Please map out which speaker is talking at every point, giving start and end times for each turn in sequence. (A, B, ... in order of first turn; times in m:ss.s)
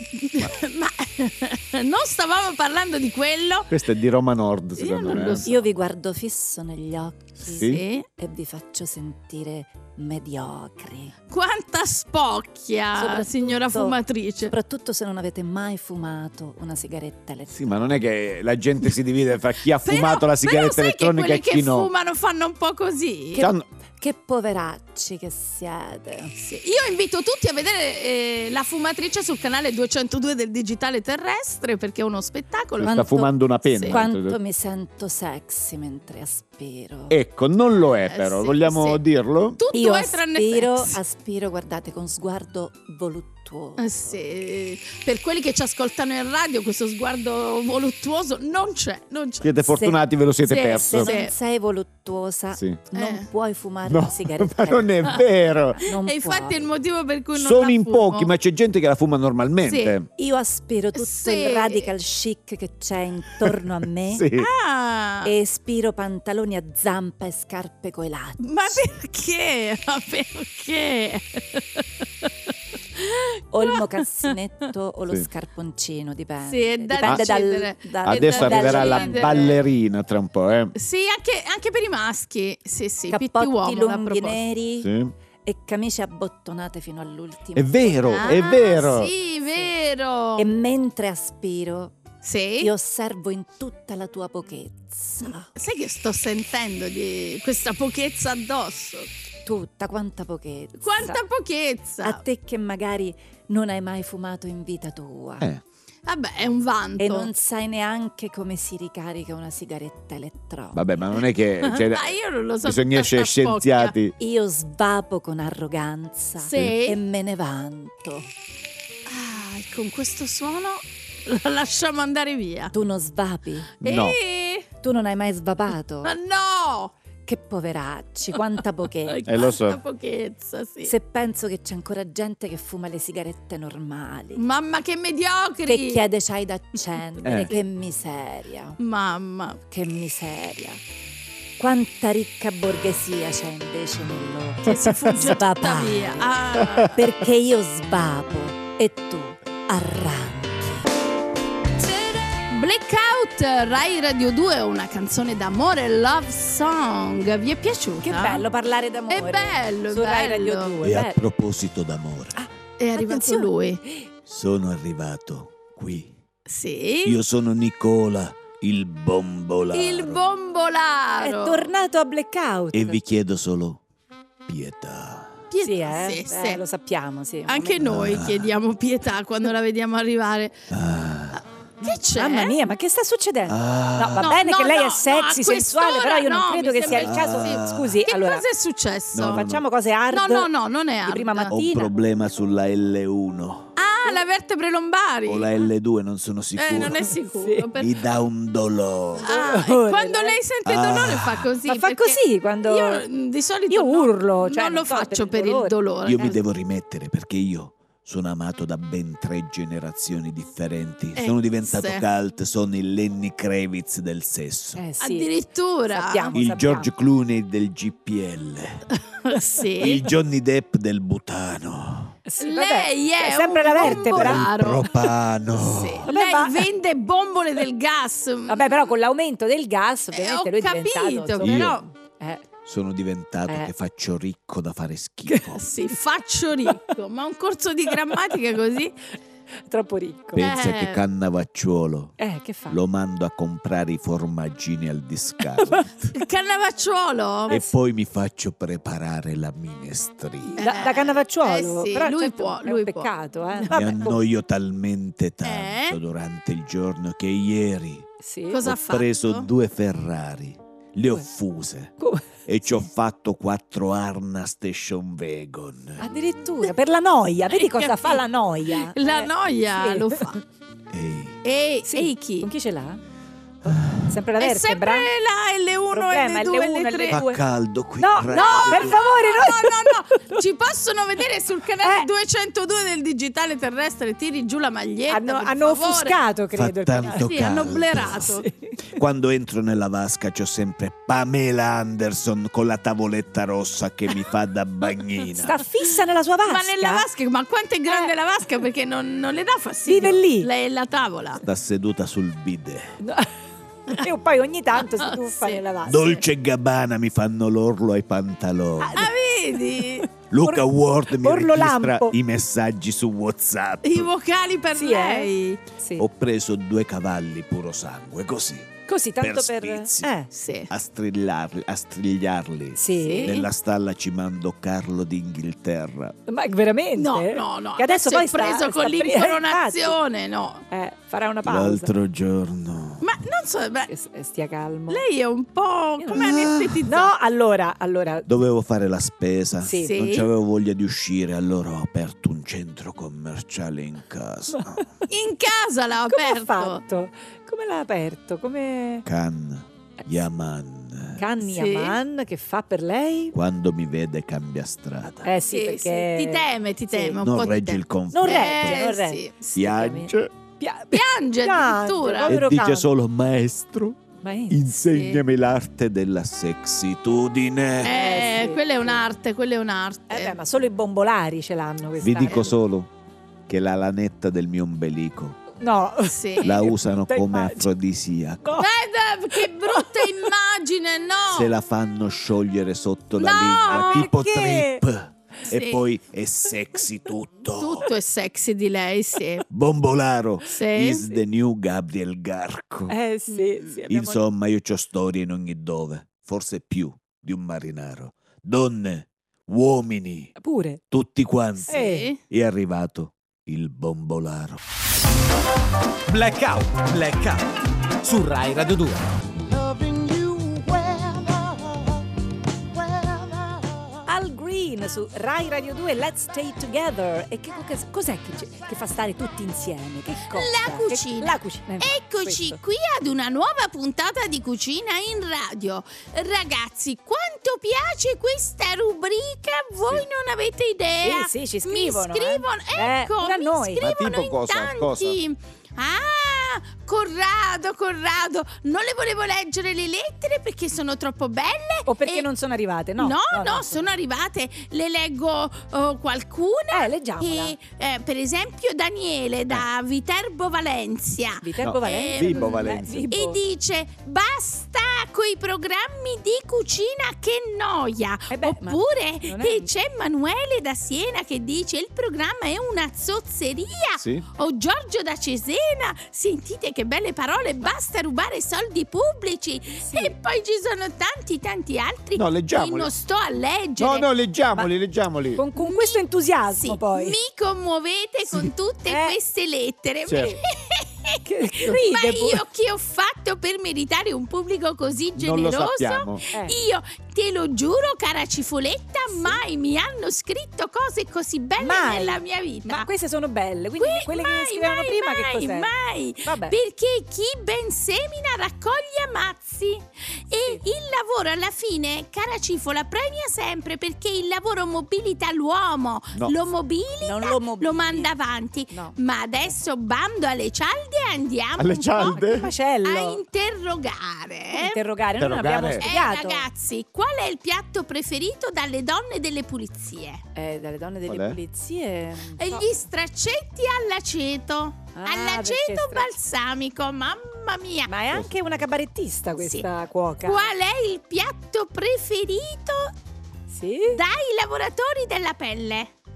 0:00.2-0:03.7 A
0:03.7-0:05.5 B
0:04.8-0:05.6 A
0:05.3-0:11.1 C
0:07.5-0:07.8 B
0:07.6-0:08.1 A
0:11.3-0:14.5 A
0:13.0-0:17.8 C
0:17.5-0:21.9 B
0:19.8-0:23.4 A
0:23.3-0:26.3 C
0:23.4-0:23.7 B
0:26.4-0:34.0 A
0:32.8-0:34.4 B
0:32.8-0:33.3 C
0:33.8-0:37.2 C
0:37.1-0:39.6 B
0:38.1-0:39.0 A
0:39.6-0:41.0 A
0:39.7-0:43.9 C
0:43.8-0:49.6 A
0:49.4-0:51.1 B
0:49.7-0:50.0 C
0:50.4-0:51.3 A
0:50.9-0:56.7 C
0:52.5-0:52.8 B
0:52.9-0:53.3 A
0:53.9-0:55.8 B
0:55.9-0:58.3 A
0:57.3-1:00.1 B
0:59.6-1:00.0 A
1:00.2-1:04.2 C
1:01.0-1:01.9 A
1:04.1-1:04.5 B
1:04.4-1:05.3 A
1:05.2-1:08.8 C
1:08.4-1:12.3 A
1:13.0-1:14.3 A
1:13.5-1:19.5 C
1:16.5-1:19.6 A
1:18.0-1:20.7 B
1:20.8-1:24.4 A
1:23.1-1:24.9 C
1:24.8-1:25.1 B
1:25.4-1:28.5 C
1:27.6-1:29.1 B
1:28.1-1:30.5 A
1:30.4-1:32.0 C
1:32.2-1:32.7 A
1:32.6-1:35.5 C
1:35.6-1:39.1 A
1:39.5-1:41.2 C
1:40.8-1:42.2 A
1:42.0-1:45.5 C
1:46.1-1:47.3 A
1:47.0-1:50.9 C
1:50.7-1:54.2 B
1:51.6-1:53.9 A
1:54.2-1:58.3 C
1:56.4-1:57.0 A
1:59.1-2:02.7 A
2:02.7-2:03.7 C
2:03.8-2:04.2 B
2:03.8-2:04.7 A
2:04.8-2:06.1 C
2:06.0-2:06.9 A
2:07.2-2:09.2 C
2:09.1-2:10.9 A
2:09.2-2:09.8 B
2:10.8-2:14.4 C
2:14.4-2:16.0 A
2:15.7-2:18.8 C
2:17.2-2:17.6 A
2:17.2-2:17.5 B
2:18.8-2:19.6 A
2:19.7-2:20.8 C
2:21.6-2:26.3 C
2:24.6-2:27.0 A
2:26.9-2:30.9 C
2:31.8-2:38.4 A
2:38.0-2:41.2 C
2:39.1-2:40.9 A
2:40.8-2:42.4 B
2:42.4-2:44.1 C
2:42.8-2:43.8 A
2:44.3-2:46.2 B
2:46.5-2:47.2 A
2:47.0-2:50.2 B
2:49.7-2:51.7 A
2:51.2-2:53.0 C
2:52.7-2:53.8 B
2:54.5-2:55.4 B
2:55.5-2:56.6 A
2:55.6-2:58.1 C
2:57.5-3:00.6 A
2:57.8-2:58.5 B
3:00.7-3:01.4 B
3:01.3-3:02.6 A
3:01.9-3:08.4 C
3:03.5-3:04.4 B
3:04.2-3:09.4 A
3:06.9-3:08.0 B
3:09.1-3:09.6 B
3:09.3-3:10.5 C
3:10.1-3:11.5 A
3:11.0-3:11.9 C
3:11.5-3:13.7 B
3:13.8-3:15.7 A
3:15.3-3:17.0 B
3:16.6-3:17.9 A
3:17.2-3:17.7 C
3:17.8-3:19.3 B
3:19.2-3:20.4 C
3:19.2-3:26.4 A
3:20.6-3:21.5 B
3:21.6-3:23.0 C
3:23.7-3:26.4 C
3:26.0-3:34.8 B
3:31.1-3:32.0 A
3:34.8-3:35.3 C
3:35.0-3:36.4 A
3:35.9-3:36.9 C
3:36.4-3:38.8 B
3:39.2-3:40.0 A
3:39.8-3:42.2 B
3:42.3-3:44.5 C
3:42.4-3:45.0 A
3:43.8-3:46.1 B
3:45.5-3:48.9 A
3:46.0-3:46.7 C
3:48.5-3:52.4 C
3:50.1-3:51.8 A
3:51.4-3:51.8 B
3:52.6-3:55.6 B
3:55.3-3:55.6 C
3:55.6-3:58.9 A
3:58.1-3:58.4 C
3:59.7-4:00.5 C
4:00.3-4:02.2 B
4:00.4-4:01.0 A
4:02.2-4:02.8 C
4:02.7-4:06.1 B
4:05.6-4:05.9 C
4:06.1-4:07.6 A
4:07.5-4:10.6 B
4:10.6-4:14.2 C
4:10.6-4:13.9 A
4:13.7-4:18.1 B
4:15.4-4:16.0 A
4:18.2-4:18.6 C
4:18.5-4:19.5 A
4:18.6-4:21.9 B
4:22.0-4:22.4 C
4:22.5-4:26.1 B
4:26.0-4:30.4 C
4:27.5-4:30.4 A
4:30.9-4:31.4 B
4:31.4-4:32.5 A
4:31.8-4:33.0 C
4:33.6-4:34.1 B
4:33.9-4:35.1 C
4:34.4-4:37.2 A
4:35.9-4:37.4 C
4:37.1-4:39.0 B
4:38.0-4:40.4 C
4:38.3-4:46.2 A
4:41.8-4:42.1 C
4:45.1-4:47.4 C
4:46.5-4:48.4 B
4:47.1-4:48.5 A
4:48.2-4:48.8 C
4:48.9-4:55.6 B
4:55.4-4:57.1 C
4:56.4-5:01.4 A
4:59.9-5:00.5 C
5:01.4-5:03.0 B
5:03.0-5:03.3 C
5:03.9-5:06.1 C
5:04.8-5:06.2 A
5:05.9-5:09.1 B
5:08.8-5:09.1 C
5:08.9-5:10.1 A
5:10.3-5:14.1 B
5:10.4-5:12.2 C
5:13.8-5:15.6 A
5:14.8-5:16.1 C
5:16.0-5:20.1 B
5:18.9-5:20.3 C
5:20.3-5:20.7 A
5:20.7-5:26.2 B
5:22.8-5:23.4 C
5:23.0-5:23.5 A
5:26.3-5:30.0 C
5:27.0-5:30.6 A
5:30.7-5:31.9 C
5:31.4-5:33.1 B
5:33.0-5:33.9 A
5:33.9-5:35.0 C
5:34.9-5:37.1 A
5:36.0-5:38.3 C
5:36.1-5:36.9 B
5:38.3-5:44.8 B
5:39.6-5:40.0 C
5:39.8-5:40.3 A
5:44.5-5:44.8 C
5:45.1-5:46.8 A
5:46.1-5:49.1 C
5:49.0-5:51.2 B
5:51.2-5:53.4 C
5:51.4-5:52.0 A
5:53.3-5:55.3 B
5:55.2-5:57.2 C
5:55.5-5:59.5 A
5:57.2-5:58.8 B
5:58.1-6:02.9 C
5:59.6-6:00.3 B
6:00.9-6:02.4 A
6:02.3-6:08.0 B
6:04.2-6:04.6 C
6:04.9-6:05.2 A
6:07.8-6:10.4 A
6:07.8-6:09.0 C
6:10.1-6:12.5 C
6:12.0-6:12.9 B
6:13.5-6:15.4 B
6:15.6-6:17.7 C
6:16.1-6:16.6 A
6:16.4-6:18.6 B
6:18.4-6:18.7 C
6:18.6-6:21.5 A
6:19.3-6:20.3 C
6:21.3-6:27.9 B
6:23.2-6:24.1 A
6:23.7-6:24.8 C
6:25.5-6:25.8 A
6:27.6-6:29.4 A
6:29.5-6:32.9 B
6:30.5-6:31.1 A
6:32.9-6:34.2 C
6:33.3-6:33.8 A
6:33.9-6:40.3 B
6:40.4-6:40.8 C
6:40.9-6:44.6 B
6:41.7-6:42.2 A
6:41.7-6:42.1 C
6:46.1-6:47.5 D
6:48.0-6:49.1 D
6:49.5-6:51.7 B
6:52.8-6:53.4 B
6:54.1-7:02.6 C
7:00.3-7:22.3 A
7:11.0-7:13.8 C
7:13.8-7:15.2 B
7:21.9-7:23.9 C
7:23.0-7:54.1 A
7:26.7-7:27.6 C
7:31.4-7:33.4 C
7:31.6-7:33.1 B
7:38.3-7:39.7 C
7:44.0-7:44.2 B
7:49.8-7:50.1 C
7:52.2-7:52.9 B
7:53.8-7:55.4 B
7:55.4-7:57.2 C
7:55.6-8:12.9 A
7:58.9-7:59.2 C
8:00.1-8:00.3 B
8:00.2-8:00.4 C
8:01.2-8:02.4 C
8:05.2-8:06.2 B
8:09.1-8:09.4 C
8:11.6-8:15.7 C
8:13.8-8:32.2 A
8:16.2-8:16.6 C
8:27.0-8:28.1 C
8:28.7-8:29.0 C
8:31.6-8:32.5 B
8:32.1-8:33.2 C
8:32.8-8:34.8 A
8:34.5-8:36.4 C
8:35.2-8:35.8 B
8:35.8-8:40.2 A
8:40.4-8:42.7 C
8:41.1-8:41.4 B
8:42.4-8:47.9 A
8:44.9-8:46.1 C
8:47.9-8:50.5 C
8:49.4-8:49.6 A
8:50.2-8:52.9 A
8:53.5-8:54.0 C
8:53.9-8:55.9 A